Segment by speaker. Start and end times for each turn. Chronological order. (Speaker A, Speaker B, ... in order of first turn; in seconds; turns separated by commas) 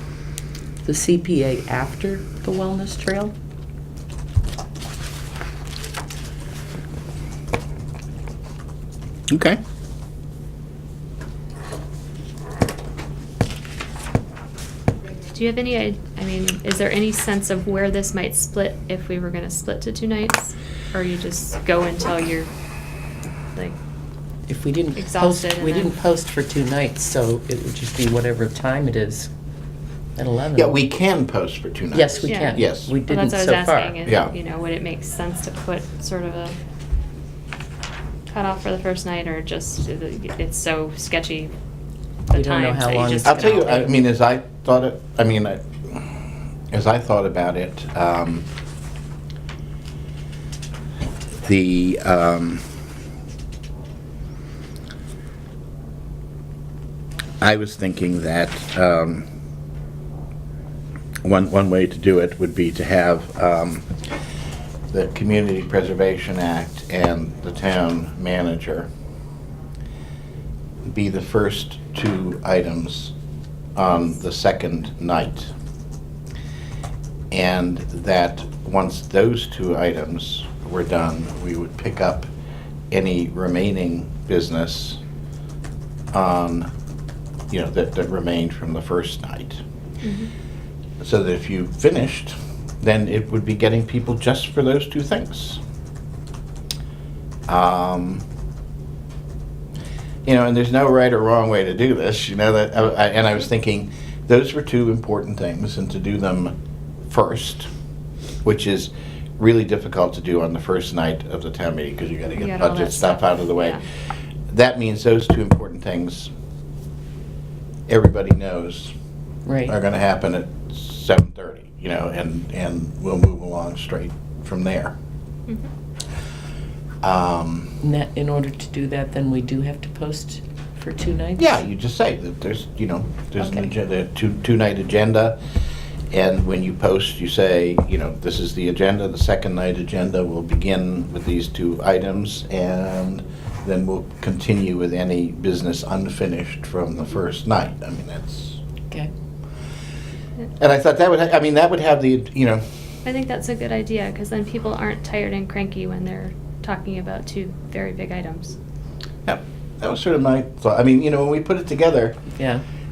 Speaker A: 0.8-3.3, Speaker B: 9.3-9.6, Speaker C: 15.3-22.5, Speaker A: 24.5-29.3, Speaker C: 24.9-25.9, Speaker A: 30.1-30.8, Speaker B: 30.6-32.9, Speaker A: 31.9-34.0, Speaker C: 32.3-36.5, Speaker B: 34.0-34.3, Speaker C: 38.3-41.5, Speaker C: 42.3-43.7, Speaker A: 42.3-43.9, Speaker B: 43.2-46.1, Speaker B: 46.7-48.5, Speaker B: 51.4-52.6, Speaker B: 57.4-59.3, Speaker B: 61.2-63.9, Speaker B: 64.9-68.9, Speaker B: 70.8-73.1, Speaker B: 73.8-75.5, Speaker B: 77.3-82.3, Speaker B: 82.9-85.0, Speaker B: 86.1-86.7, Speaker B: 87.5-89.6, Speaker C: 90.0-90.3, Speaker B: 91.0-95.6, Speaker B: 97.5-98.2, Speaker B: 100.2-106.5, Speaker B: 107.1-107.7, Speaker B: 108.4-113.8, Speaker C: 112.4-113.8, Speaker B: 114.5-116.3, Speaker B: 117.9-118.9, Speaker A: 119.5-119.7, Speaker B: 119.7-124.9, Speaker B: 127.0-127.8, Speaker A: 127.8-131.5, Speaker B: 131.4-135.4, Speaker B: 136.1-148.6, Speaker B: 150.6-152.6, Speaker C: 153.0-158.6, Speaker B: 159.2-162.2, Speaker A: 162.3-162.6